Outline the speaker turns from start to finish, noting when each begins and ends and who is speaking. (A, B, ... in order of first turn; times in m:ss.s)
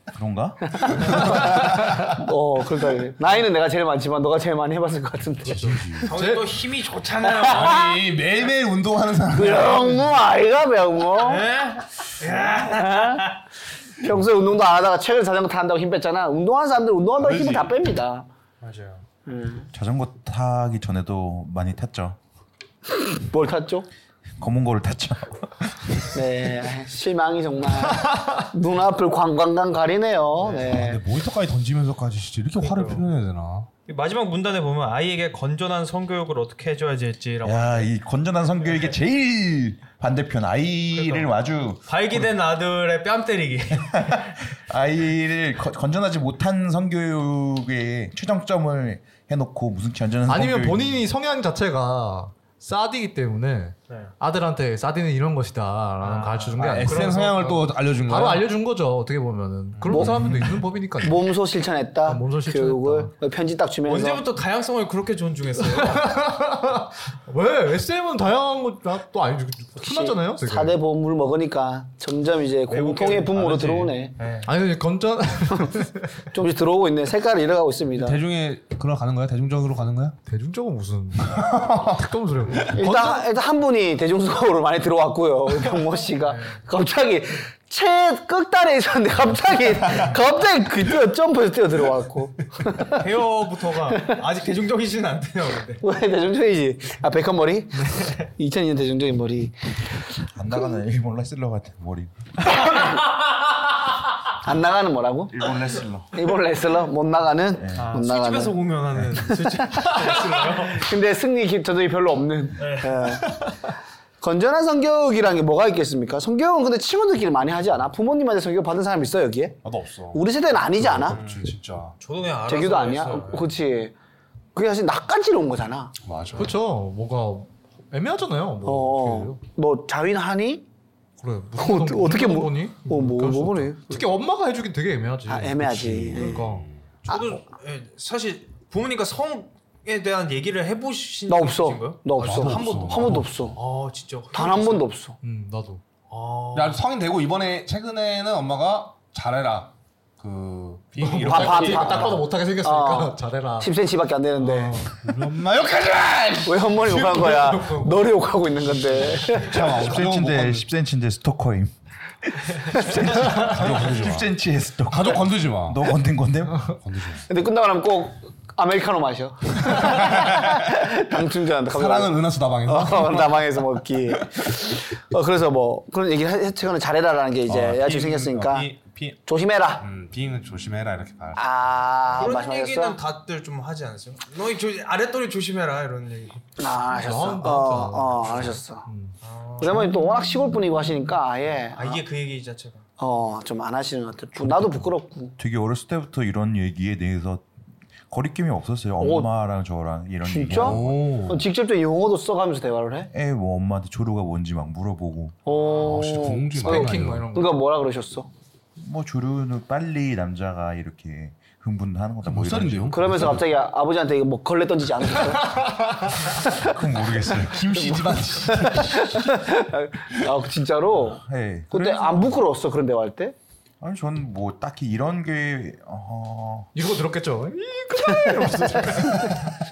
0:00.1-0:01.3 A
0:00.8-0:05.9 B
0:01.1-0:01.6 C
0:05.5-0:06.1 C
0:05.5-0:06.5 D
0:06.1-0:07.9 E
0:07.2-0:08.0 B
0:07.4-0:10.0 C
0:09.3-0:11.4 B
0:11.2-0:13.4 E
0:12.5-0:13.2 B
0:14.0-0:18.3 B
0:17.2-0:17.7 C
0:18.6-0:19.0 E
0:19.2-0:19.7 B
0:19.7-0:22.2 A
0:22.9-0:23.9 B
0:24.4-0:26.1 A
0:26.1-0:31.0 B
0:30.4-0:30.8 E
0:30.6-0:33.7 C
0:32.6-0:33.0 E
0:33.9-0:37.9 E
0:37.4-0:42.3 A
0:40.9-0:41.3 E
0:41.9-0:44.5 E
0:43.8-0:51.0 A
0:50.3-0:57.2 D
0:56.0-0:57.7 E
0:56.6-0:58.5 C
0:58.0-1:01.2 D
0:59.8-1:00.3 C
0:59.9-1:00.2 B
1:01.0-1:04.2 B
1:02.0-1:03.1 D
1:03.8-1:06.2 E
1:05.6-1:10.8 D
1:09.8-1:14.1 B
1:12.7-1:14.5 E
1:14.4-1:16.1 D
1:16.3-1:18.2 B
1:17.9-1:20.2 C
1:20.2-1:23.2 D
1:21.2-1:22.6 C
1:22.7-1:33.1 B
1:26.2-1:26.6 E
1:32.9-1:35.8 E
1:33.9-1:34.2 B
1:35.8-1:40.2 B
1:40.3-1:42.1 A
1:42.6-1:43.1 E
1:44.4-1:45.4 B
1:45.3-1:46.1 A
1:46.1-1:48.6 B
1:47.6-1:47.8 A
1:47.8-1:50.9 E
1:49.2-1:53.5 B
1:52.6-1:53.2 E
1:54.2-1:59.6 B
1:59.6-2:00.2 C
2:00.1-2:01.2 B
2:00.7-2:01.9 C
2:02.0-2:03.5 E
2:02.5-2:03.9 B
2:04.5-2:05.9 B
2:06.0-2:06.5 C
2:06.3-2:09.4 D
2:08.6-2:10.6 B
2:11.2-2:16.7 D
2:11.6-2:14.0 B
2:15.3-2:16.4 B
2:15.8-2:16.8 C
2:17.0-2:24.9 E
2:17.1-2:17.4 B
2:21.3-2:23.6 B
2:22.2-2:23.5 C
2:24.3-2:25.2 B
2:25.2-2:25.8 D
2:26.1-2:26.8 E
2:26.5-2:32.2 C
2:31.0-2:33.7 D
2:31.2-2:34.8 B
2:34.4-2:35.0 D
2:35.0-2:37.4 C
2:36.4-2:39.7 B
2:36.9-2:38.1 D
2:39.2-2:40.7 C
2:39.7-2:41.7 A
2:42.4-2:46.8 A
2:43.2-2:44.3 C
2:44.9-2:45.9 C
2:46.6-2:47.2 C
2:47.2-2:58.7 B
2:49.7-2:50.6 C
2:51.6-2:53.5 C
2:57.5-2:59.2 C
2:59.2-2:59.8 B
2:59.8-3:01.5 C
3:01.4-3:03.0 B
3:02.2-3:06.4 E
3:06.6-3:08.8 B
3:06.9-3:09.2 D
3:09.2-3:10.0 E
3:09.6-3:12.0 B
3:11.7-3:12.8 E
3:13.0-3:15.3 B
3:15.4-3:17.4 A
3:18.1-3:20.9 A
3:19.0-3:19.3 B
3:20.2-3:23.1 B
3:20.5-3:21.4 C
3:23.1-3:25.4 A
3:25.4-3:28.3 B
3:25.8-3:27.3 C
3:25.9-3:27.6 D
3:28.8-3:33.4 A
3:32.2-3:33.4 C
3:32.9-3:36.7 B
3:35.6-3:36.1 D
3:36.5-3:38.6 A
3:37.5-3:39.4 C
3:38.0-3:43.3 B
3:41.1-3:42.4 A
3:43.8-3:46.7 A
3:46.7-3:49.5 D
3:48.2-3:48.5 B